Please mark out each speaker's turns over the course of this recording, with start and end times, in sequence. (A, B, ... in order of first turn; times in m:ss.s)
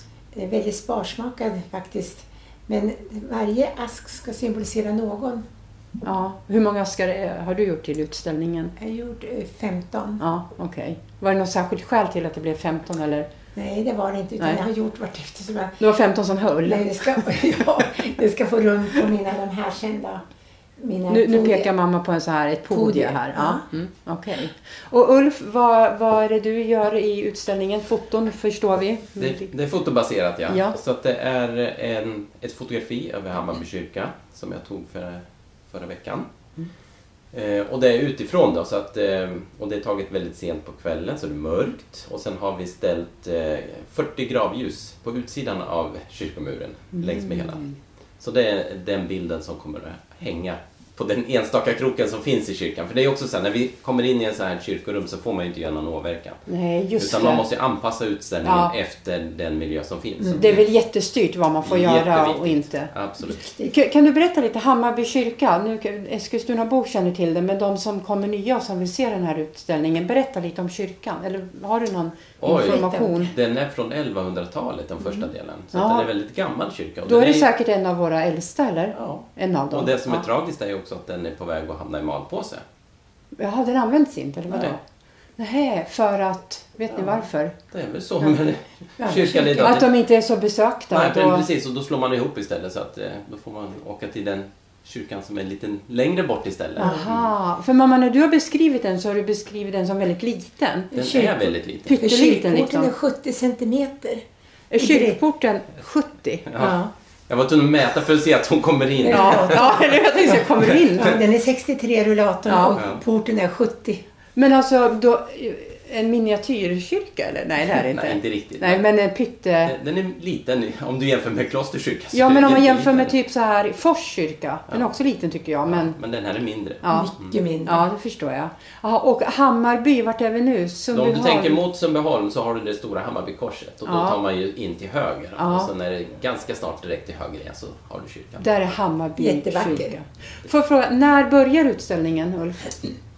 0:00.3-0:05.4 A
0:06.0-0:08.7 B
0:08.8-0:10.2 A
0:10.2-0:13.3 B
0:13.5-0:15.8 A
0:14.4-0:14.7 B
0:15.8-0:17.2 B
0:16.6-0:20.2 A
0:20.8-0:21.7 A
0:21.1-0:29.5 B
0:22.7-0:23.6 A
0:29.2-0:36.3 C
0:30.5-0:30.8 B
0:37.3-0:47.6 C
0:47.0-0:47.8 B
0:48.2-0:56.4 C
0:56.5-0:57.4 B
0:57.0-1:00.7 C
0:58.4-0:58.7 B
1:00.3-1:02.9 B
1:01.6-1:03.4 C
1:03.2-1:03.7 A
1:03.6-1:13.3 B
1:12.4-1:17.5 C
1:15.7-1:16.1 B
1:17.0-1:20.2 B
1:18.9-1:22.6 C
1:23.4-1:24.8 B
1:24.5-1:24.8 C
1:25.4-1:27.5 B
1:27.7-1:29.9 C
1:29.0-1:29.8 A
1:29.6-1:31.4 B
1:30.9-1:37.3 C
1:36.8-1:40.9 B
1:36.8-1:37.0 A
1:40.9-1:44.2 A
1:40.9-1:42.0 C
1:41.8-1:42.9 B
1:44.7-1:46.5 B
1:44.8-1:45.2 A
1:46.5-1:50.0 C
1:46.6-1:46.9 A
1:49.0-1:54.0 A
1:49.1-1:51.2 B
1:52.5-1:52.8 B
1:52.8-1:53.0 C
1:54.4-1:59.7 B
1:57.7-1:58.8 C
1:59.6-2:03.1 C
2:02.1-2:05.9 B
2:05.6-2:07.4 C
2:06.8-2:07.1 B
2:06.9-2:07.8 A
2:07.6-2:11.6 B
2:10.9-2:18.4 C
2:13.8-2:14.2 B
2:15.4-2:15.7 B
2:18.4-2:23.0 B
2:19.2-2:19.9 A